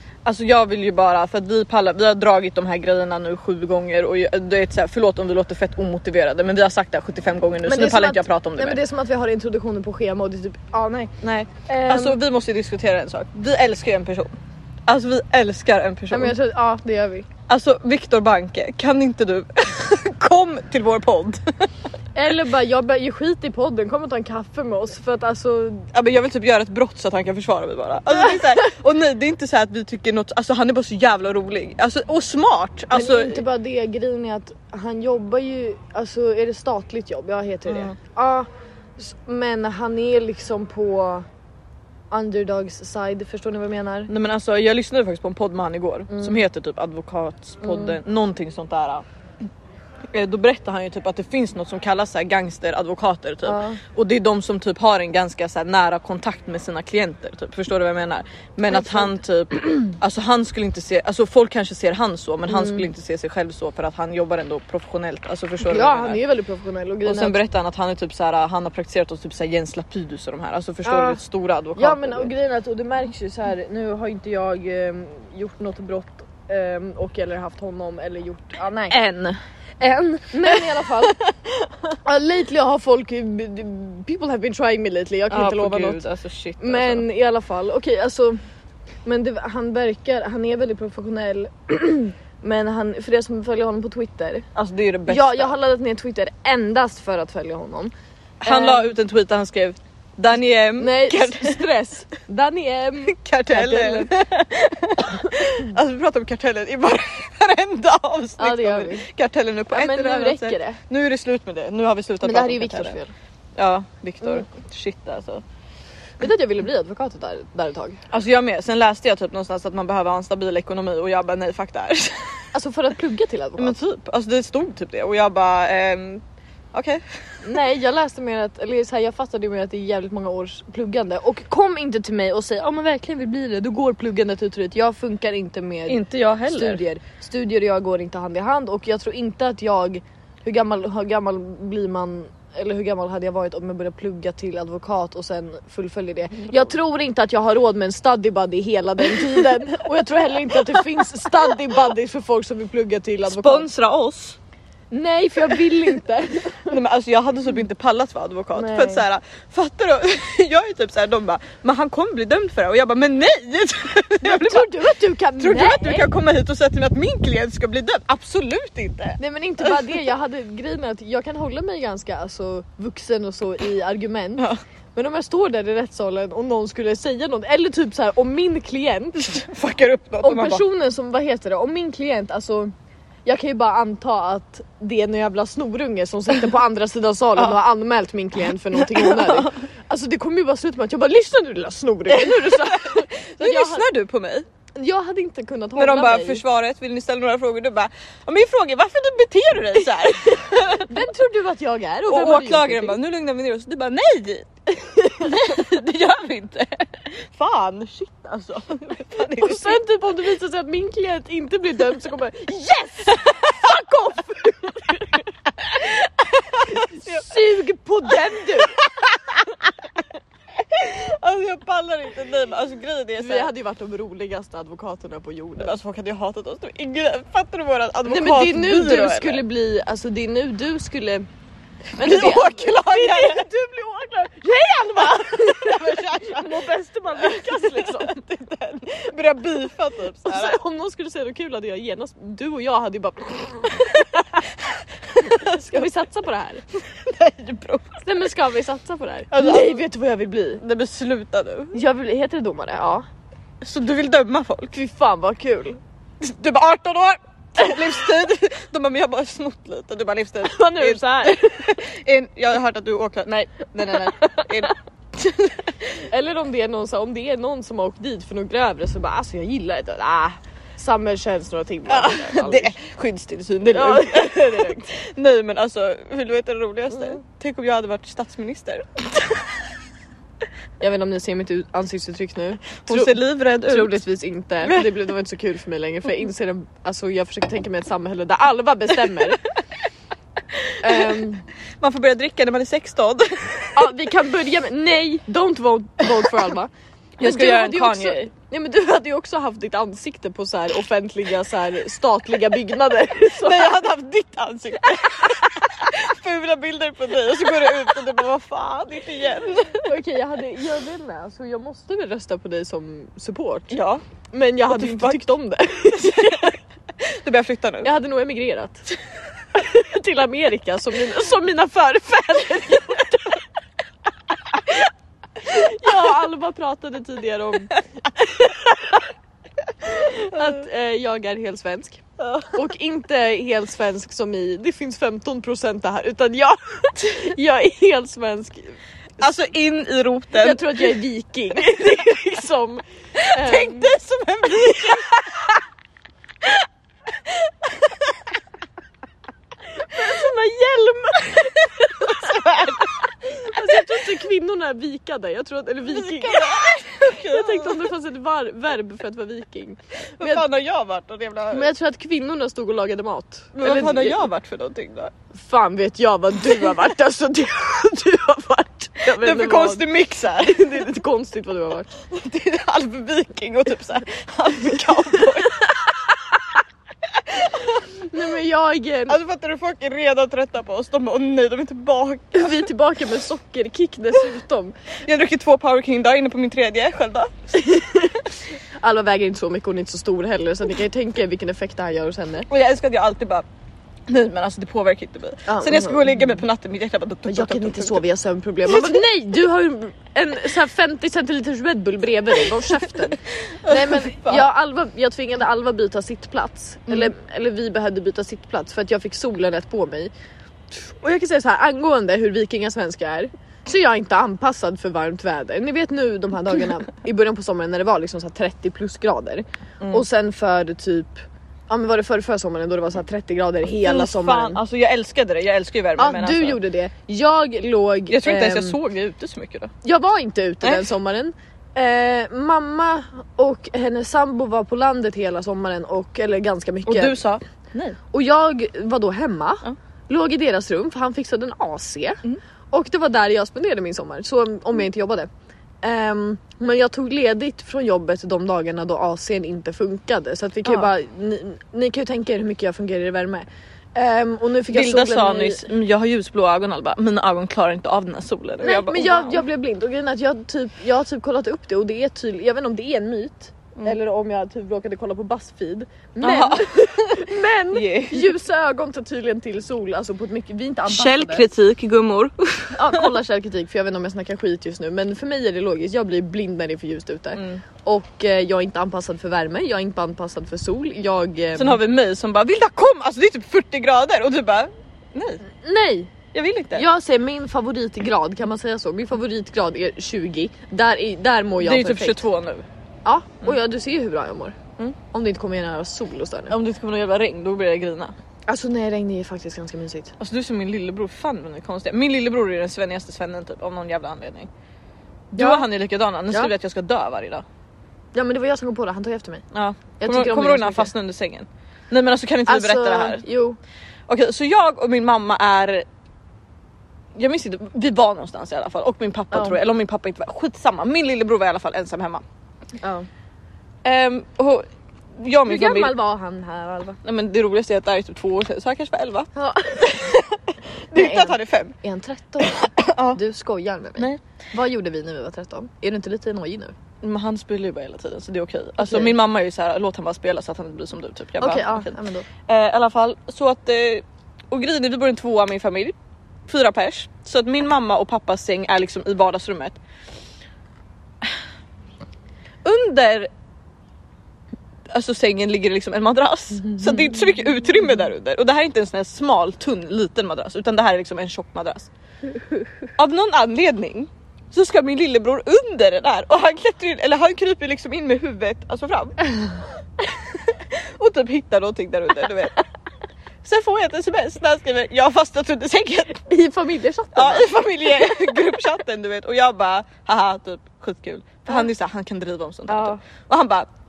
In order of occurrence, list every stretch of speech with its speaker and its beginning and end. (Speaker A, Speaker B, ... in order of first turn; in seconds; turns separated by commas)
Speaker A: 0.2-8.8, Speaker B: 7.7-12.2, Speaker A: 11.2-14.3, Speaker A: 14.9-16.4, Speaker B: 16.1-17.3, Speaker A: 17.5-21.7, Speaker B: 22.1-25.9, Speaker A: 25.9-33.4, Speaker B: 32.9-38.5, Speaker A: 37.7-37.9, Speaker B: 39.0-41.2, Speaker B: 42.1-44.1, Speaker A: 44.1-49.0, Speaker B: 46.1-46.4, Speaker B: 47.6-48.0, Speaker A: 50.1-66.2, Speaker B: 53.4-53.8, Speaker B: 58.7-59.1, Speaker B: 62.5-62.9, Speaker B: 65.6-67.4, Speaker A: 67.0-72.3, Speaker B: 70.8-71.2, Speaker B: 71.8-79.0, Speaker A: 78.9-79.4, Speaker B: 79.8-81.2, Speaker A: 80.5-81.9, Speaker B: 82.0-86.0, Speaker A: 85.3-87.0, Speaker B: 86.6-88.4, Speaker B: 89.0-94.5, Speaker A: 94.5-95.5, Speaker B: 95.1-98.9, Speaker A: 98.4-101.7, Speaker B: 100.8-104.1, Speaker A: 103.1-113.0, Speaker B: 105.0-105.5, Speaker B: 108.4-109.0, Speaker B: 109.7-110.8, Speaker B: 112.2-113.1, Speaker A: 113.5-115.4, Speaker B: 116.2-118.0, Speaker A: 118.1-122.4, Speaker B: 122.5-123.8, Speaker A: 123.6-127.0, Speaker B: 127.4-153.7, Speaker A: 135.9-136.8, Speaker A: 149.2-149.6, Speaker A: 150.5-151.5, Speaker A: 153.2-154.4, Speaker B: 154.9-156.8, Speaker A: 156.7-170.0, Speaker B: 158.5-159.0, Speaker B: 164.2-166.1, Speaker B: 169.2-179.4, Speaker A: 179.3-180.6, Speaker B: 180.2-182.7, Speaker B: 183.2-193.8, Speaker A: 188.7-189.5, Speaker A: 192.1-194.4, Speaker B: 194.8-196.4, Speaker A: 195.8-200.9, Speaker B: 200.8-203.0, Speaker A: 202.1-209.8, Speaker B: 205.2-205.5, Speaker B: 209.2-215.3, Speaker A: 216.4-217.4, Speaker B: 216.6-218.8, Speaker A: 218.6-219.8, Speaker A: 220.6-223.5, Speaker B: 223.2-225.8, Speaker A: 225.6-229.4, Speaker B: 228.0-231.3, Speaker B: 231.9-238.2, Speaker A: 232.0-233.5, Speaker A: 234.9-240.6, Speaker B: 240.2-244.5, Speaker B: 245.1-246.6, Speaker A: 245.2-245.8, Speaker A: 246.9-248.0, Speaker B: 248.0-250.6, Speaker A: 249.3-249.8, Speaker A: 250.6-251.8, Speaker B: 251.7-253.1, Speaker A: 253.6-254.8, Speaker B: 254.7-255.8, Speaker A: 256.2-265.8, Speaker B: 260.4-261.8, Speaker B: 264.2-264.5, Speaker B: 265.9-272.7, Speaker A: 271.9-279.6, Speaker B: 273.6-274.9, Speaker B: 280.8-289.4, Speaker A: 282.8-283.9, Speaker A: 284.6-284.9, Speaker A: 290.5-291.2, Speaker B: 290.8-291.4, Speaker A: 291.8-293.9, Speaker B: 293.7-303.8, Speaker A: 297.2-298.2, Speaker A: 303.4-309.9, Speaker B: 309.8-313.8, Speaker A: 313.7-314.0, Speaker B: 314.3-316.6, Speaker A: 314.7-315.2, Speaker A: 315.9-317.9, Speaker B: 317.8-318.9, Speaker B: 319.5-323.4, Speaker B: 324.5-324.9, Speaker B: 325.4-329.1, Speaker B: 329.8-338.8, Speaker A: 332.2-332.5, Speaker A: 339.2-340.9, Speaker B: 340.3-343.9, Speaker A: 343.2-345.5, Speaker B: 344.5-345.2, Speaker B: 349.8-360.4, Speaker A: 352.0-352.9, Speaker A: 355.9-357.9, Speaker A: 360.2-361.7, Speaker B: 361.5-364.2, Speaker A: 363.5-365.1, Speaker B: 365.3-369.8, Speaker A: 369.0-370.7, Speaker B: 370.4-371.9, Speaker A: 372.1-376.1, Speaker A: 377.1-377.8, Speaker B: 377.7-379.2, Speaker A: 379.1-382.7, Speaker B: 382.3-384.8, Speaker A: 385.0-387.5, Speaker B: 387.5-392.5, Speaker A: 392.5-393.4, Speaker A: 394.1-398.0, Speaker B: 395.5-396.4, Speaker B: 397.2-410.1, Speaker A: 398.6-399.0, Speaker A: 402.6-404.5, Speaker B: 410.7-424.6, Speaker A: 423.8-426.6, Speaker B: 426.0-428.8, Speaker A: 428.1-429.7, Speaker B: 429.8-437.2, Speaker A: 430.6-430.9, Speaker A: 436.9-438.0, Speaker B: 438.1-445.3, Speaker B: 445.8-455.7, Speaker A: 454.7-459.4, Speaker B: 458.6-471.4, Speaker A: 466.2-468.3, Speaker A: 470.9-473.1, Speaker B: 472.7-481.8, Speaker A: 477.3-477.6, Speaker A: 481.5-485.4, Speaker B: 485.5-486.1, Speaker A: 486.3-486.8, Speaker B: 486.7-492.2, Speaker A: 491.6-492.6, Speaker B: 493.0-494.6, Speaker B: 495.1-496.5, Speaker A: 496.5-498.1, Speaker B: 498.5-500.1, Speaker A: 500.2-504.5, Speaker A: 505.3-507.4, Speaker B: 505.4-505.7, Speaker B: 508.1-509.4, Speaker A: 509.5-513.2, Speaker B: 510.0-510.9, Speaker B: 512.5-513.6, Speaker A: 514.1-515.8, Speaker A: 517.1-522.2, Speaker B: 519.3-519.6, Speaker B: 522.8-523.1, Speaker A: 523.8-524.6, Speaker A: 525.1-525.9, Speaker B: 525.5-527.0, Speaker A: 527.0-531.7, Speaker B: 529.3-530.2, Speaker B: 530.9-536.7, Speaker A: 532.4-533.2, Speaker A: 537.0-545.9, Speaker B: 538.8-539.1, Speaker B: 541.4-542.2, Speaker A: 546.5-549.8, Speaker A: 552.6-553.3, Speaker A: 554.9-561.9, Speaker A: 563.0-569.2, Speaker A: 570.2-572.6, Speaker A: 573.4-576.2, Speaker B: 576.2-578.3, Speaker A: 577.1-583.7, Speaker B: 582.7-583.0